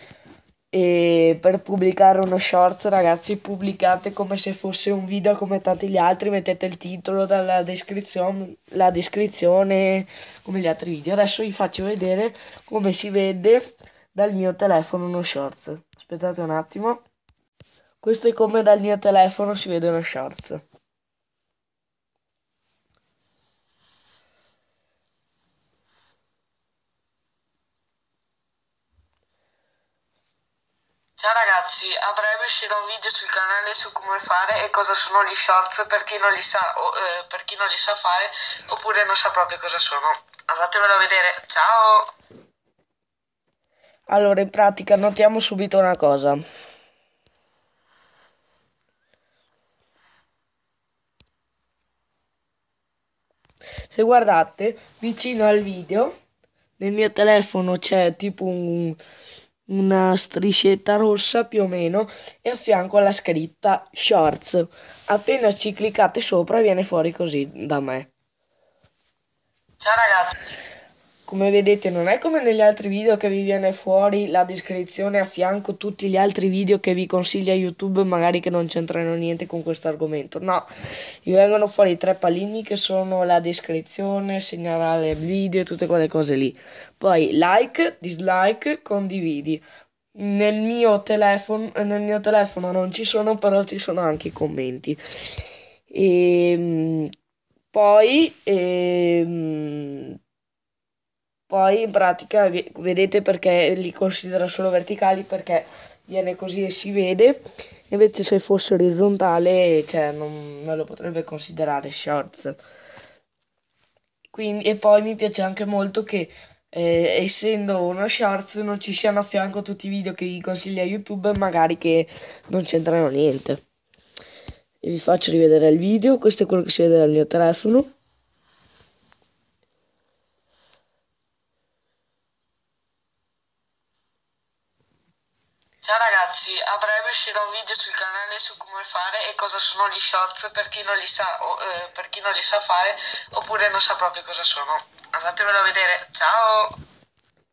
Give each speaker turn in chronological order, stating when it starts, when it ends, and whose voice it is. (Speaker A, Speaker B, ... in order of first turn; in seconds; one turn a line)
Speaker A: 0.7-13.6
Speaker A: 14.2-17.0
Speaker A: 18.0-20.6
Speaker B: 31.2-42.0
Speaker A: 32.2-32.6
Speaker A: 33.6-34.7
Speaker A: 44.1-46.4
Speaker A: 53.9-56.1
Speaker A: 56.8-59.0
Speaker A: 59.7-68.1
Speaker B: 69.8-70.2
Speaker A: 71.3-80.7
Speaker A: 81.2-89.6
Speaker A: 90.2-97.1
Speaker A: 97.7-100.2
Speaker A: 101.5-112.6
Speaker A: 114.3-123.6
Speaker A: 124.8-127.9
Speaker B: 135.8-146.7
Speaker A: 136.7-137.9
Speaker A: 139.9-141.1
Speaker A: 145.7-146.0